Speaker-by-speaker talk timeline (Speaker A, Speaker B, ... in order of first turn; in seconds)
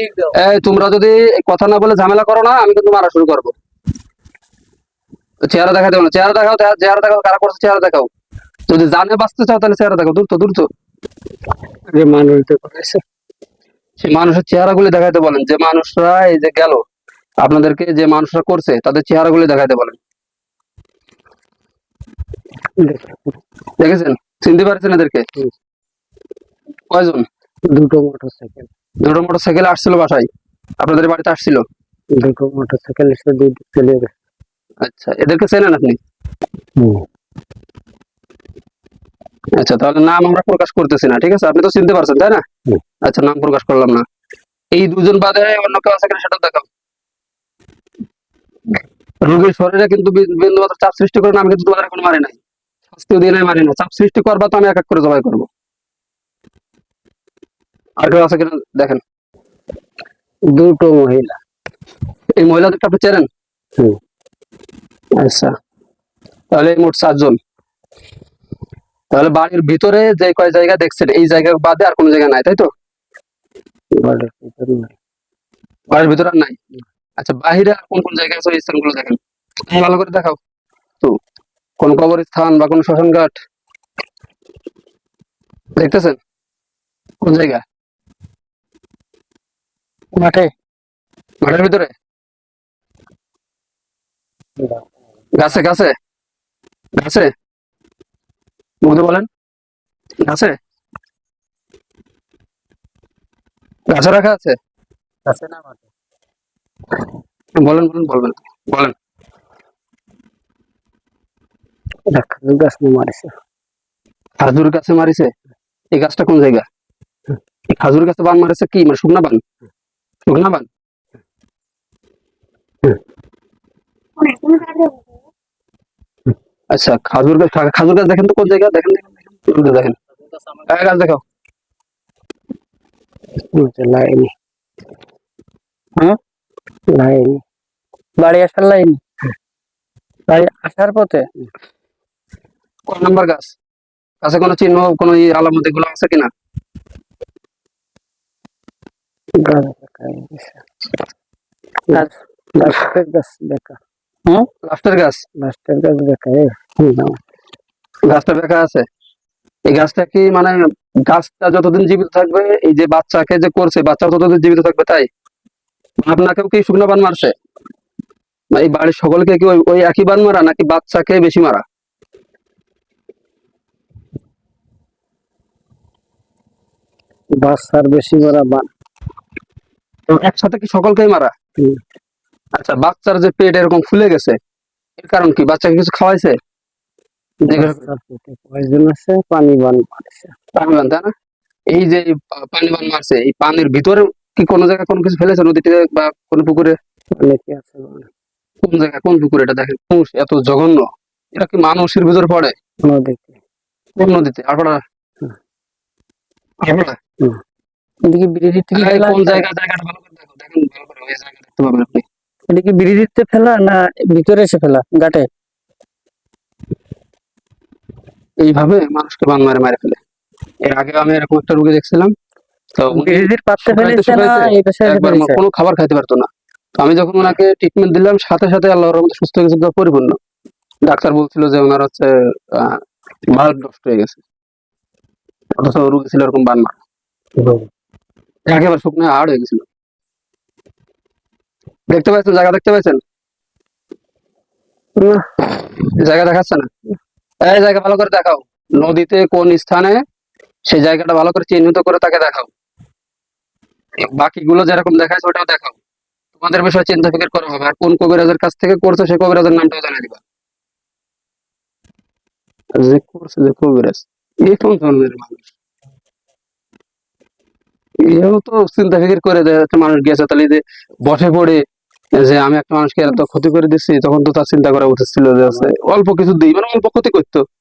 Speaker A: 0.3-3.5, 5.5-8.1, 8.7-10.7, 14.0-16.8, 17.4-20.0, 23.8-25.2, 26.9-27.2, 29.0-30.3, 30.8-31.6, 34.8-36.0, 39.6-42.4, 43.0-44.0, 44.7-46.7, 49.2-52.4, 52.9-55.5, 58.0-59.0, 62.4-63.3, 65.2-65.5, 66.5-67.4, 69.1-72.7, 75.9-76.6, 77.2-79.2, 79.7-80.4, 81.8-83.3, 85.8-86.2, 87.2-87.6, 91.4-91.9, 95.3-95.9, 97.0-97.3, 98.8-99.3, 100.2-100.5, 103.9-104.5, 107.6-108.9, 114.4-115.3, 115.9-116.6, 117.7-119.4, 120.2-120.7, 126.7-129.9, 130.6-131.2, 142.9-143.5, 144.2-146.3, 154.7-155.2, 158.1-158.8, 159.7-165.1, 166.0-167.3, 168.5-171.6, 180.1-181.3, 182.6-184.4, 185.0-186.4, 187.5-187.9, 190.5-191.1, 191.7-196.8, 198.6-202.5, 204.0-204.8, 206.6-206.9, 208.7-212.0, 218.4-220.0, 220.6-222.1, 222.8-230.2, 230.8-234.2, 235.5-236.8, 238.5-239.7, 241.9-243.0, 245.6-246.7, 247.4-250.0, 250.7-252.5, 254.0-255.8, 256.4-260.2, 262.8-265.5, 268.0-271.6, 272.1-277.4
Speaker B: 11.9-13.0, 22.8-23.2, 27.7-28.7, 32.1-34.1, 36.8-37.0, 60.5-61.4, 74.0-74.9, 94.6-94.8, 105.2-105.8, 112.1-113.3, 133.5-134.3, 136.9-137.4, 149.4-150.6, 151.9-153.8, 155.4-156.5, 177.4-178.7, 187.5-190.3, 197.2-198.1, 202.8-203.4, 237.4-237.6
Speaker C: 90.1-90.5, 138.2-139.0, 140.3-141.2, 208.1-209.4, 212.5-215.3, 222.9-225.4